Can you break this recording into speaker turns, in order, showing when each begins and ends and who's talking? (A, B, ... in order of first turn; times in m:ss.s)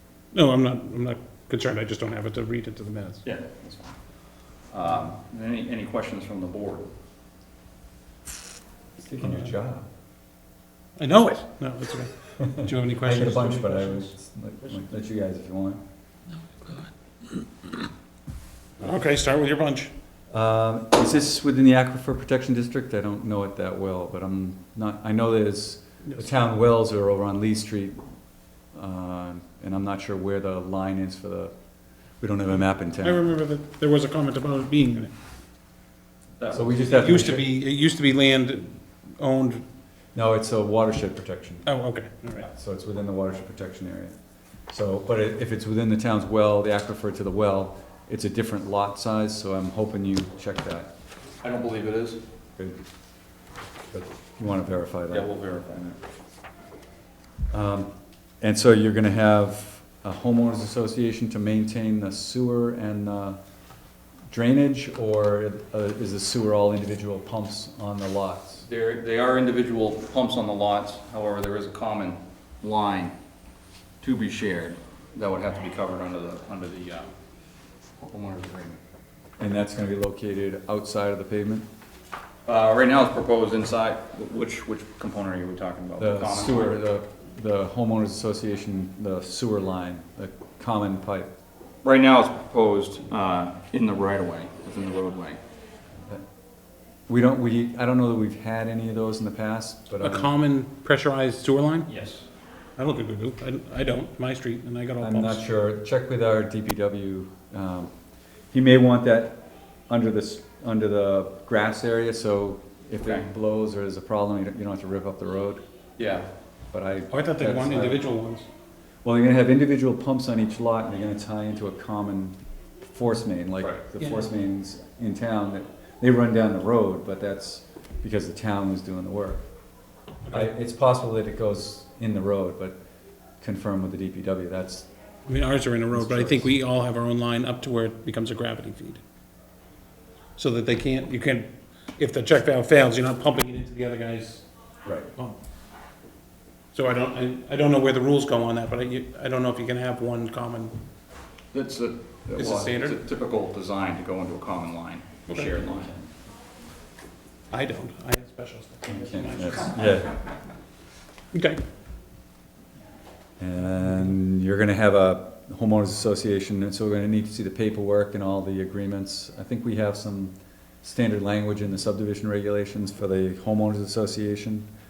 0:00.3-0:03.2 A
0:03.2-0:04.0 B
0:04.7-0:06.9 B
0:09.0-0:09.9 C
0:11.0-0:14.1 A
0:12.5-0:15.8 C
0:16.5-0:17.9 A
0:18.8-0:19.9 A
0:20.3-0:28.0 C
0:28.7-0:31.5 C
0:32.2-0:33.2 C
0:33.0-0:35.1 A
0:36.4-0:37.1 B
0:36.5-0:37.5 C
0:36.9-0:39.6 A
0:40.2-0:41.7 C
0:41.7-0:42.5 A
0:42.5-0:44.1 C
0:44.7-0:50.9 C
0:51.4-0:52.2 B
0:53.9-0:55.3 C
0:55.1-0:56.0 B
0:57.5-0:57.9 C
0:58.4-1:03.4 C
1:04.3-1:08.6 C
1:08.7-1:13.1 B
1:14.0-1:17.1 B
1:18.0-1:18.8 B
1:19.4-1:21.7 C
1:22.5-1:26.8 B
1:26.0-1:31.3 C
1:31.8-1:35.4 B
1:37.1-1:40.3 C
1:40.0-1:41.9 A
1:41.9-1:42.2 B
1:42.8-1:45.4 A
1:45.0-1:47.9 C
1:48.5-1:55.6 C
1:53.0-1:53.3 B
1:56.0-1:56.3 B
1:56.7-1:58.1 C
1:57.1-1:58.5 A
1:59.0-2:09.4 C
2:04.0-2:04.3 A
2:10.3-2:12.8 C
2:13.4-2:14.9 C
2:15.3-2:19.0 A
2:15.9-2:16.5 C
2:20.4-2:24.4 A
2:26.7-2:30.7 A
2:31.5-2:36.0 B
2:32.3-2:33.0 A
2:35.3-2:35.7 A
2:37.5-2:39.9 A
2:38.8-2:40.1 C
2:41.3-2:41.6 A
2:43.4-2:54.7 C